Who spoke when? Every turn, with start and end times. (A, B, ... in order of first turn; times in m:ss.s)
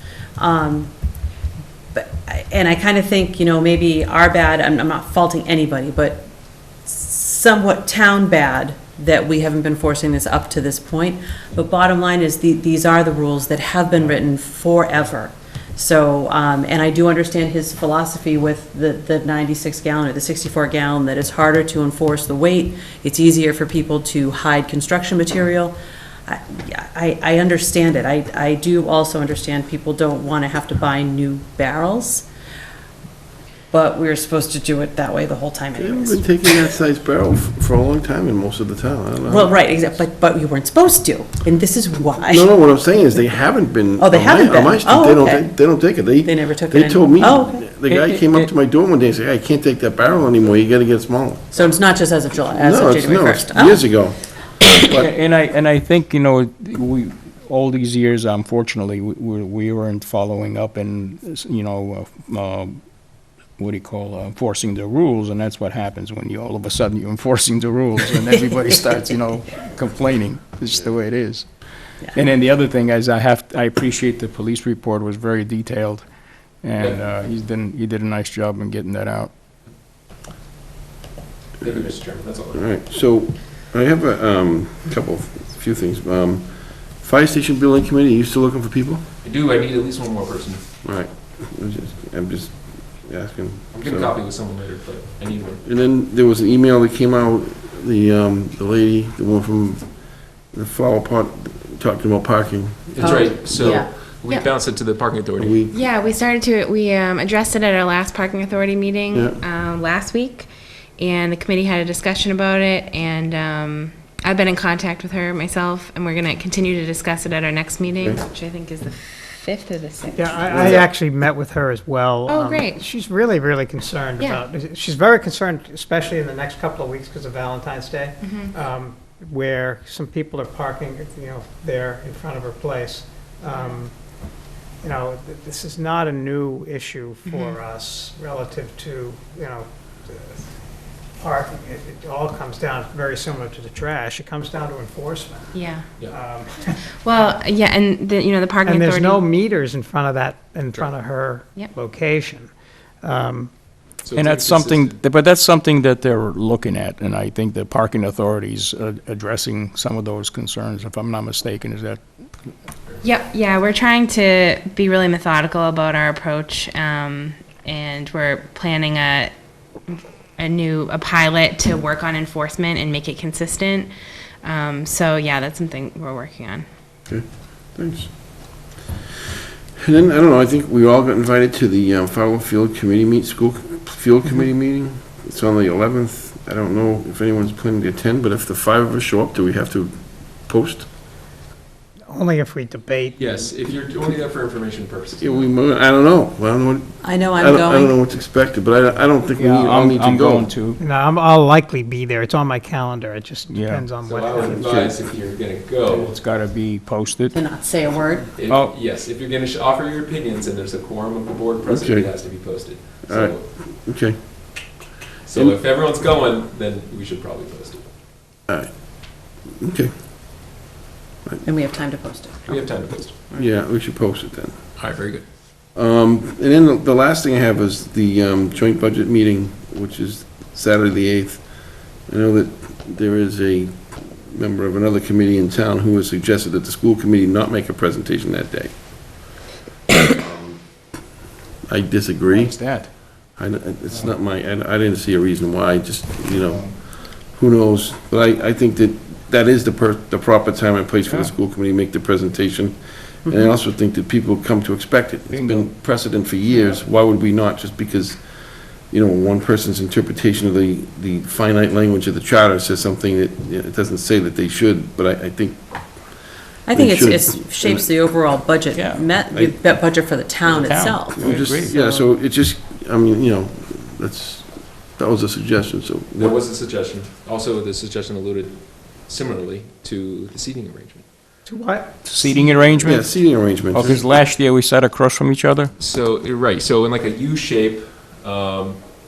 0:00.4-0:00.9 A
0:01.9-0:06.3 A
0:06.8-0:25.8 A
0:26.3-0:32.3 A
0:33.7-0:36.7 A
0:35.8-0:40.0 B
0:39.3-0:42.5 A
0:42.3-0:51.8 B
0:44.0-0:45.6 A
0:46.2-0:47.7 A
0:47.9-0:48.5 C
0:51.5-0:53.8 A
0:52.5-0:55.0 B
0:54.9-1:02.8 C
1:03.6-1:11.5 C
1:12.1-1:16.1 C
1:16.6-1:19.3 C
1:21.6-1:22.7 D
1:22.5-1:29.0 B
1:29.2-1:30.6 D
1:30.8-1:34.2 B
1:33.7-1:35.6 D
1:35.6-1:43.8 B
1:42.9-1:45.6 D
1:43.0-1:43.9 A
1:45.4-1:45.8 B
1:45.7-2:00.6 E
1:49.1-1:49.4 B
2:00.1-2:13.9 F
2:00.5-2:00.8 B
2:02.3-2:02.8 E
2:04.2-2:04.4 E
2:08.2-2:08.5 E
2:14.8-2:20.5 F
2:17.3-2:17.6 E
2:21.2-2:27.4 F
2:25.5-2:25.9 E
2:27.0-2:29.2 E
2:28.6-2:33.5 F
2:34.0-2:35.0 D
2:34.1-2:42.0 C
2:43.0-2:49.3 E
2:49.9-2:53.9 E
2:54.4-2:56.7 E
2:57.1-2:58.8 B
2:59.8-3:10.9 B
3:12.1-3:13.3 F
3:13.2-3:15.4 D
3:15.2-3:20.5 B
3:17.0-3:18.0 A
3:19.3-3:20.8 C
3:20.8-3:24.6 F
3:23.5-3:23.8 C
3:24.0-3:26.1 D
3:24.4-3:25.0 B
3:25.9-3:27.4 C
3:27.3-3:28.3 A
3:28.3-3:33.4 D
3:28.5-3:28.8 C
3:31.7-3:32.1 B
3:33.1-3:34.2 B
3:35.3-3:37.8 D
3:39.6-3:39.9 B
3:41.4-3:42.6 A
3:42.5-3:43.3 D
3:43.3-3:44.6 B
3:44.8-3:45.2 D
3:45.8-3:58.8 B
3:59.9-4:00.6 B
4:01.7-4:02.6 B
4:02.3-4:02.9 C
4:03.1-4:18.2 B
4:06.3-4:06.7 C
4:11.1-4:11.3 C
4:15.3-4:15.7 C
4:18.9-4:26.2 B
4:26.7-4:32.0 A
4:26.7-4:27.9 B
4:28.7-4:29.1 C
4:29.3-4:29.6 B
4:30.4-4:31.7 C
4:31.2-4:36.4 B
4:36.2-4:41.0 D
4:41.5-4:42.7 F
4:42.0-4:43.1 C
4:42.8-4:44.0 B
4:43.7-4:45.7 C
4:45.8-4:48.8 D